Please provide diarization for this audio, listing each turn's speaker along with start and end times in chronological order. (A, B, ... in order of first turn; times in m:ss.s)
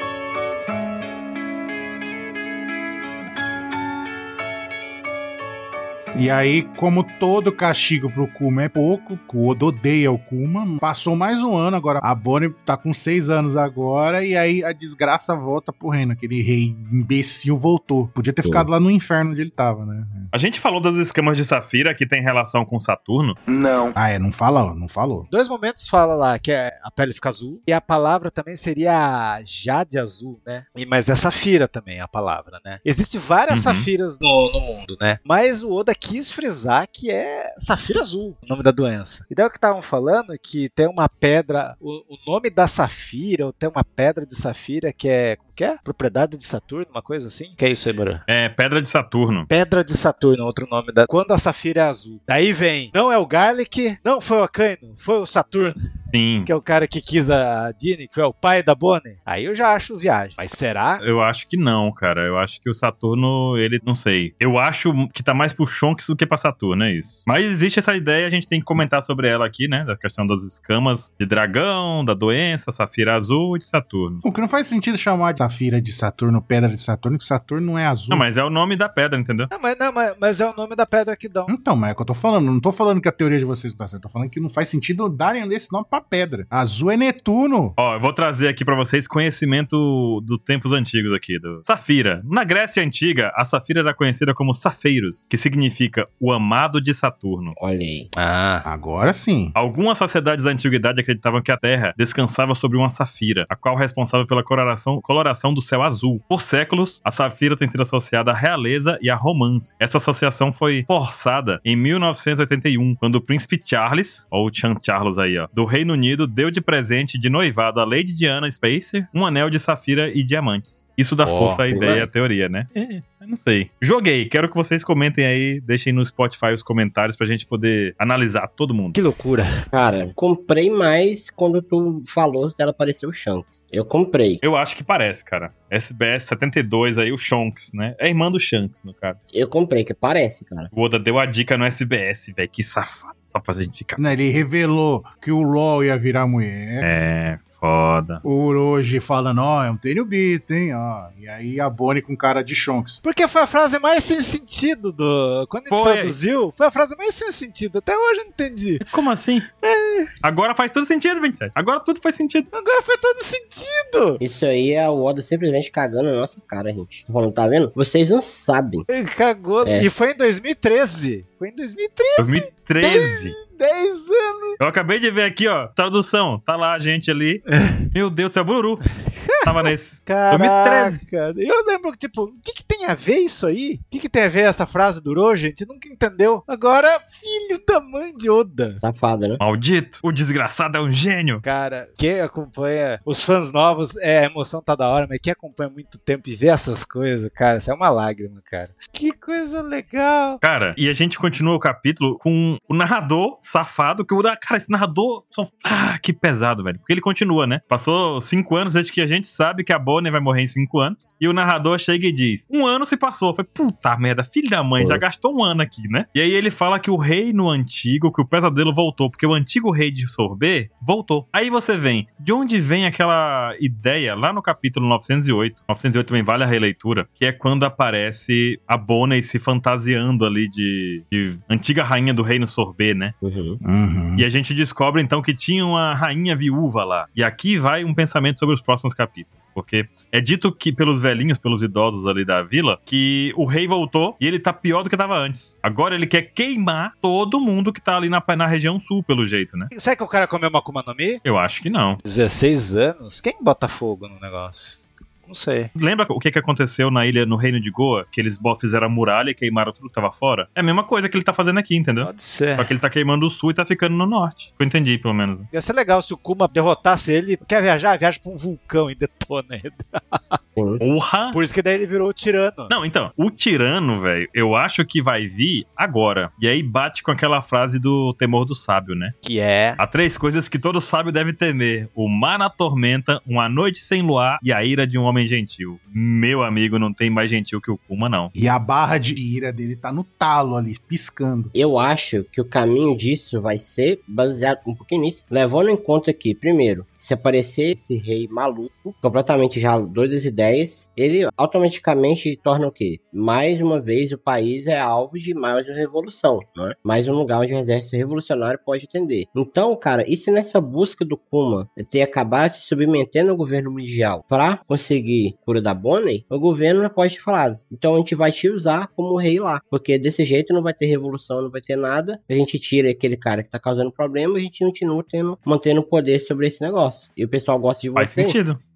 0:06.1-0:20.3 A
0:20.3-0:23.4 B
0:23.5-0:25.3 A
0:25.3-0:48.2 C
0:33.5-0:33.9 B
0:48.3-0:49.5 B
0:49.5-0:55.8 C
0:56.1-0:56.5 B
0:56.4-1:01.0 C
1:01.0-1:14.2 B
1:14.2-1:18.2 A
1:18.1-1:19.5 B
1:19.5-1:21.5 C
1:21.5-1:27.8 A
1:27.8-1:37.5 B
1:37.6-1:38.1 D
1:38.2-1:38.6 C
1:38.6-1:39.5 A
1:39.6-2:09.0 B
2:01.2-2:01.6 C
2:01.7-2:02.1 D
2:08.9-2:09.6 C
2:09.7-2:14.4 D
2:14.4-2:19.2 B
2:19.3-2:20.7 D
2:20.7-2:24.0 B
2:24.0-2:26.9 A
2:26.8-2:28.2 B
2:28.2-2:33.0 A
2:33.0-2:38.8 C
2:35.7-2:36.2 B
2:38.8-2:39.5 B
2:39.6-2:40.1 C
2:40.2-2:42.5 B
2:42.5-2:44.2 C
2:44.2-2:48.8 D
2:48.9-2:54.6 C
2:49.6-2:49.9 D
2:52.2-2:53.3 B
2:54.6-2:57.4 B
2:57.5-2:57.9 C
2:57.9-2:58.8 B
2:59.1-3:08.8 C
2:59.4-3:01.0 B
3:08.8-3:09.4 D
3:09.4-3:11.4 B
3:11.4-3:20.4 C
3:20.4-3:53.1 B
3:34.8-3:35.0 D
3:53.2-3:53.6 D
3:53.6-3:54.2 A
3:54.2-4:09.7 B
4:09.7-4:11.2 C
4:11.2-4:12.0 B
4:12.0-4:15.7 C
4:15.7-4:25.5 B
4:22.0-4:22.7 C
4:25.5-4:30.4 C
4:30.6-4:30.8 D
4:30.8-4:31.4 B
4:31.3-4:32.7 C
4:32.7-4:39.1 B
4:39.2-4:39.8 C
4:39.8-4:48.3 B
4:48.3-4:51.5 A
4:51.5-5:28.4 D
5:28.0-5:28.6 B